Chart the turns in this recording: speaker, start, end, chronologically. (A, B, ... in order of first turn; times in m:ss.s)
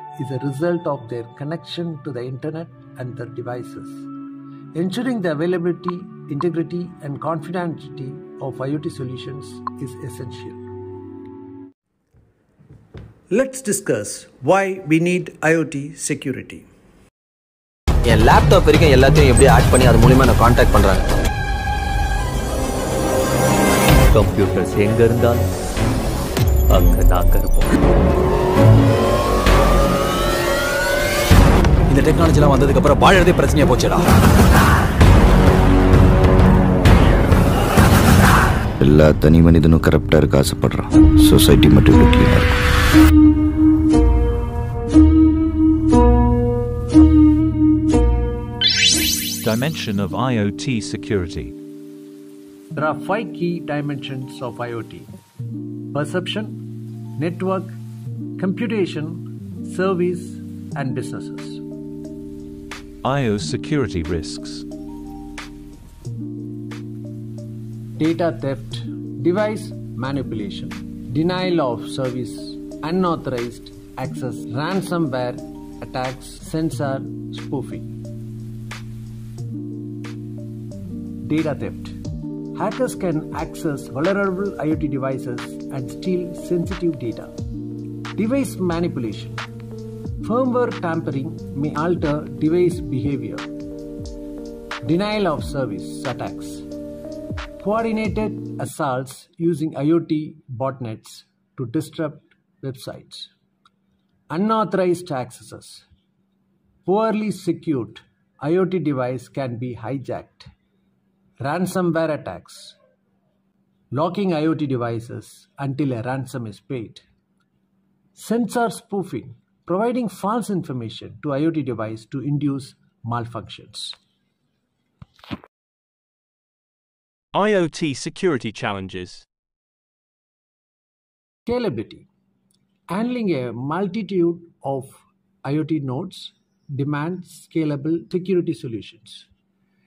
0:00.2-0:04.1 A
0:04.7-0:10.6 A
0:13.3-0:16.7 A
0:18.2-0:20.9 B
0:24.1-0:25.5 C
0:26.7-0:27.8 C
0:31.9-0:34.0 D
0:38.8-0:42.6 E
0:49.4-0:51.5 F
0:52.7-0:55.1 A
0:55.9-0:57.8 A
0:58.4-1:01.6 A
1:03.0-1:04.6 F
1:08.0-1:18.0 A
1:21.2-1:22.0 A
1:22.5-1:27.3 A
1:28.2-1:29.4 A
1:30.2-1:33.5 A
1:34.8-1:36.7 A
1:37.6-1:43.3 A
1:44.3-1:45.9 A
1:46.8-1:50.5 A
1:51.4-1:52.8 A
1:53.9-1:57.0 A
1:58.2-2:04.0 A
2:07.3-2:09.2 G
2:11.5-2:12.1 A
2:12.9-2:19.3 A